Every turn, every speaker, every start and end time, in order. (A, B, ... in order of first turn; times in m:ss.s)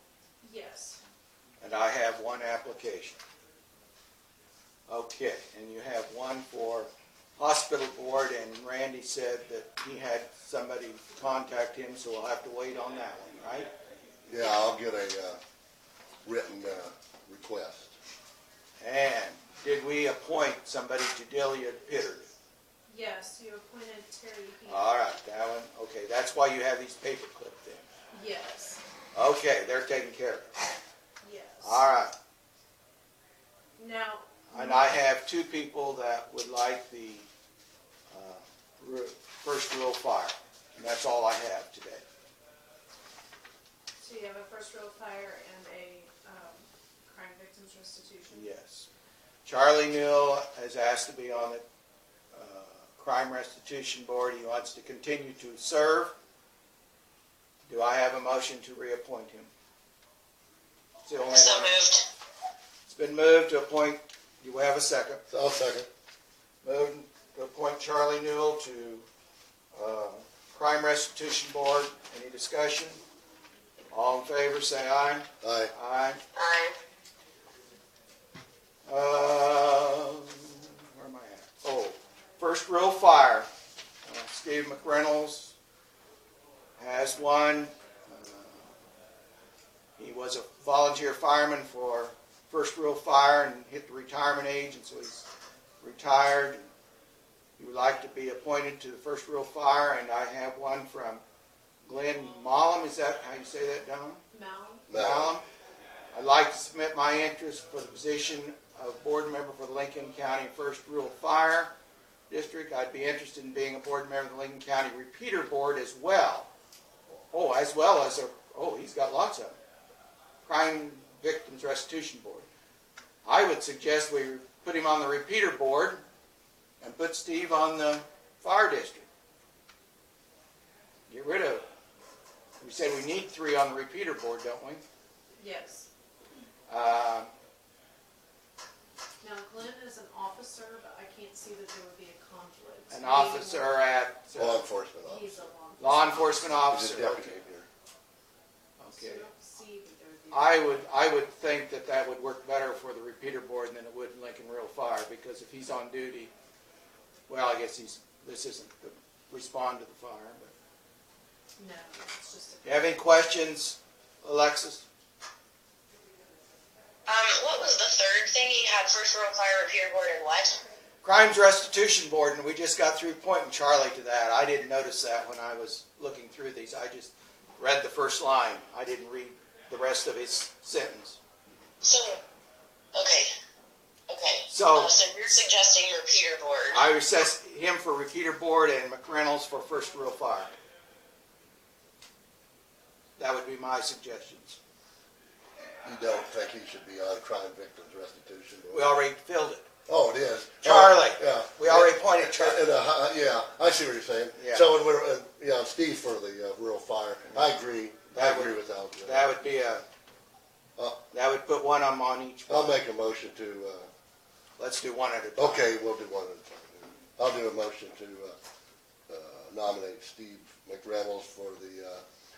0:00.4-0:01.0 A
0:01.6-0:03.2 B
0:04.9-0:13.7 B
0:14.3-0:15.4 C
0:16.2-0:17.9 C
0:18.8-0:22.3 B
0:22.9-0:24.9 A
0:24.7-0:27.8 B
0:28.1-0:28.8 A
0:29.1-0:30.6 B
0:31.2-0:31.9 A
0:31.6-0:32.1 B
0:33.8-0:35.0 A
0:34.5-0:37.3 B
0:38.1-0:42.0 B
0:44.0-0:48.5 A
0:48.3-0:48.9 B
0:49.4-0:51.6 B
0:52.3-0:56.1 B
0:57.7-0:59.5 B
1:01.0-1:01.8 B
1:01.3-1:02.1 D
1:02.9-1:05.2 B
1:05.3-1:05.9 C
1:06.6-1:09.0 B
1:09.7-1:13.0 B
1:13.9-1:16.2 B
1:15.4-1:15.7 C
1:16.4-1:16.8 D
1:18.9-1:23.5 B
1:24.0-1:25.6 B
1:26.8-1:28.7 B
1:30.0-1:35.3 B
1:35.8-1:36.7 B
1:37.6-1:41.2 B
1:41.8-1:44.2 B
1:44.3-1:44.8 A
1:44.9-1:45.4 C
1:44.9-1:45.4 B
1:46.1-1:51.7 B
1:52.3-1:56.5 B
1:57.3-1:59.6 B
2:00.4-2:02.5 B
2:03.2-2:06.0 B
2:06.8-2:09.1 B
2:11.1-2:11.6 B
2:12.6-2:14.8 B
2:15.4-2:15.9 A
2:16.7-2:17.3 B
2:19.2-2:23.7 A
2:22.9-2:24.6 B
2:24.4-2:25.4 C
2:25.0-2:26.6 A
2:25.8-2:27.4 B
2:26.7-2:27.7 C
2:28.8-2:29.3 B
2:28.9-2:30.8 A
2:30.3-2:36.3 B
2:37.3-2:40.5 B
2:41.6-2:43.2 A
2:42.6-2:44.9 B
2:47.1-2:50.6 D
2:51.0-3:01.2 B
3:01.8-3:02.2 D
3:02.9-3:03.3 D
3:04.1-3:06.8 D
3:04.5-3:04.9 B
3:06.7-3:10.5 B
3:13.2-3:14.6 B
3:15.8-3:19.0 C
3:18.7-3:19.7 B
3:19.9-3:29.3 C
3:20.6-3:22.7 B
3:24.4-3:24.7 B
3:28.1-3:29.8 B
3:31.1-3:32.8 B
3:32.5-3:33.9 C
3:34.6-3:35.7 B
3:35.4-3:38.4 C
3:39.1-3:42.0 C